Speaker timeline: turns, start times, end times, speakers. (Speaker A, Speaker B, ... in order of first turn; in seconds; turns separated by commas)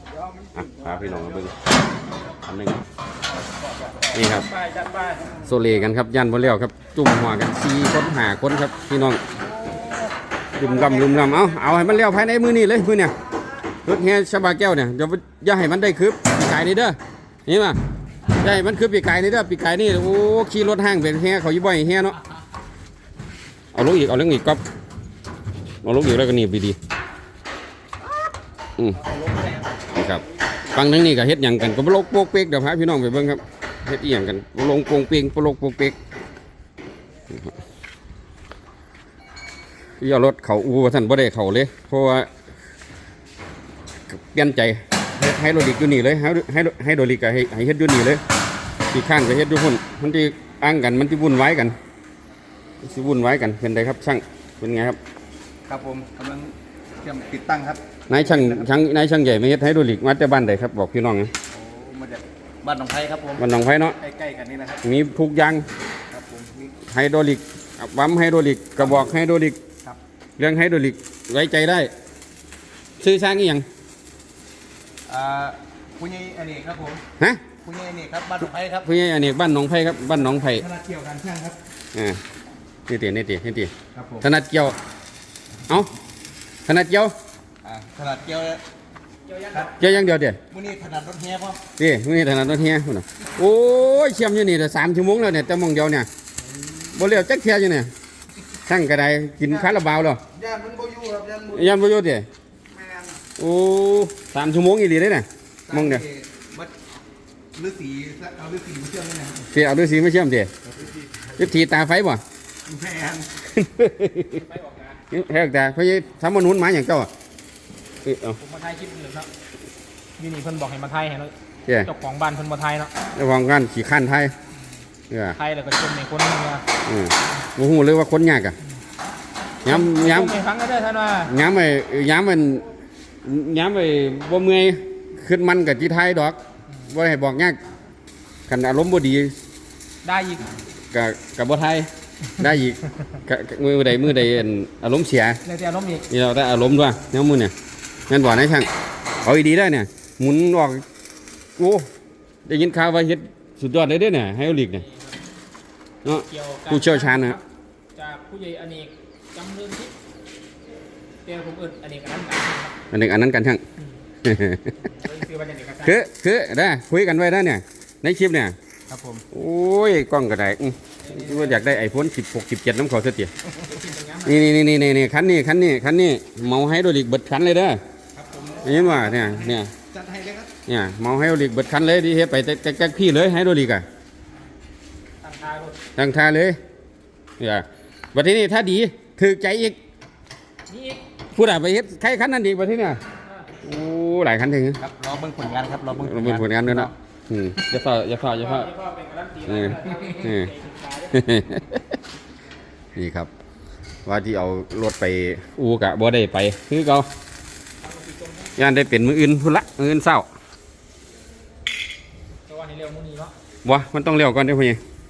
Speaker A: 0.5-1.7, Speaker A: 2.4-2.9, Speaker A: 4.1-4.5, Speaker B: 4.5-5.2, Speaker A: 5.5-9.2, Speaker B: 9.6-11.7, Speaker A: 10.6-13.1, Speaker A: 13.8-17.8, Speaker A: 18.4-22.2, Speaker A: 23.7-24.6, Speaker A: 25.8-26.8, Speaker A: 28.8-29.0, Speaker A: 29.9-36.0, Speaker A: 40.0-42.3, Speaker A: 44.1-48.2, Speaker A: 48.9-51.8, Speaker A: 52.8-55.0, Speaker C: 55.7-58.7, Speaker A: 58.1-61.3, Speaker C: 61.5-63.5, Speaker A: 63.4-64.0, Speaker C: 64.0-64.8, Speaker A: 64.8-65.7, Speaker C: 66.1-66.8, Speaker A: 66.9-69.6, Speaker A: 70.4-71.9, Speaker A: 73.0-73.7, Speaker C: 75.1-77.0, Speaker A: 77.2-77.4, Speaker C: 77.6-78.9, Speaker A: 78.8-80.7, Speaker C: 80.4-81.6, Speaker A: 81.9-82.2, Speaker A: 82.9-84.8, Speaker C: 83.9-84.3, Speaker A: 86.7-87.1, Speaker C: 87.6-88.6, Speaker B: 89.3-89.9, Speaker A: 89.8-90.4, Speaker C: 90.5-91.6, Speaker A: 91.8-96.1, Speaker A: 96.9-97.9, Speaker A: 98.7-100.2, Speaker C: 100.3-101.7, Speaker A: 101.5-102.3, Speaker C: 102.8-103.2, Speaker A: 103.4-106.0, Speaker C: 105.7-106.7, Speaker C: 107.5-109.5, Speaker A: 109.5-110.5, Speaker C: 110.7-111.0, Speaker A: 111.4-112.2, Speaker C: 112.7-113.4, Speaker A: 113.5-114.4, Speaker B: 114.3-115.0, Speaker A: 115.1-117.1, Speaker A: 118.0-118.4, Speaker B: 118.4-119.3, Speaker B: 120.2-121.3, Speaker B: 121.8-122.9, Speaker A: 123.2-124.3, Speaker A: 125.1-125.4, Speaker B: 125.3-126.6, Speaker A: 126.8-128.6, Speaker A: 129.6-130.4, Speaker B: 129.7-131.3, Speaker A: 131.3-132.7, Speaker A: 133.2-137.6, Speaker A: 138.5-139.3, Speaker B: 140.0-140.5, Speaker A: 140.9-145.4, Speaker B: 145.4-146.1, Speaker A: 146.1-147.5, Speaker A: 148.1-148.7, Speaker A: 149.2-150.8, Speaker A: 151.6-151.9, Speaker A: 152.5-154.9, Speaker B: 154.7-155.2, Speaker A: 156.1-157.4, Speaker B: 156.1-157.4, Speaker B: 157.9-159.9, Speaker B: 161.2-162.8, Speaker A: 162.9-163.6, Speaker A: 164.2-164.8, Speaker B: 164.8-166.0, Speaker A: 165.8-168.6, Speaker C: 168.9-169.2, Speaker A: 169.3-173.3, Speaker B: 171.0-171.7, Speaker B: 173.6-174.5, Speaker A: 174.2-177.8, Speaker C: 178.2-180.5, Speaker A: 178.6-179.7, Speaker A: 180.7-183.8, Speaker B: 185.2-185.8, Speaker A: 186.0-186.6, Speaker A: 187.4-189.8, Speaker B: 190.7-191.0, Speaker A: 191.3-193.0, Speaker A: 193.6-194.8, Speaker C: 194.8-196.9, Speaker A: 196.0-198.7, Speaker B: 198.3-201.2, Speaker A: 199.5-200.5, Speaker A: 201.1-202.0, Speaker A: 202.9-203.3, Speaker A: 204.1-207.1, Speaker B: 207.8-208.5, Speaker A: 208.6-210.3, Speaker B: 212.5-213.3, Speaker A: 213.6-214.8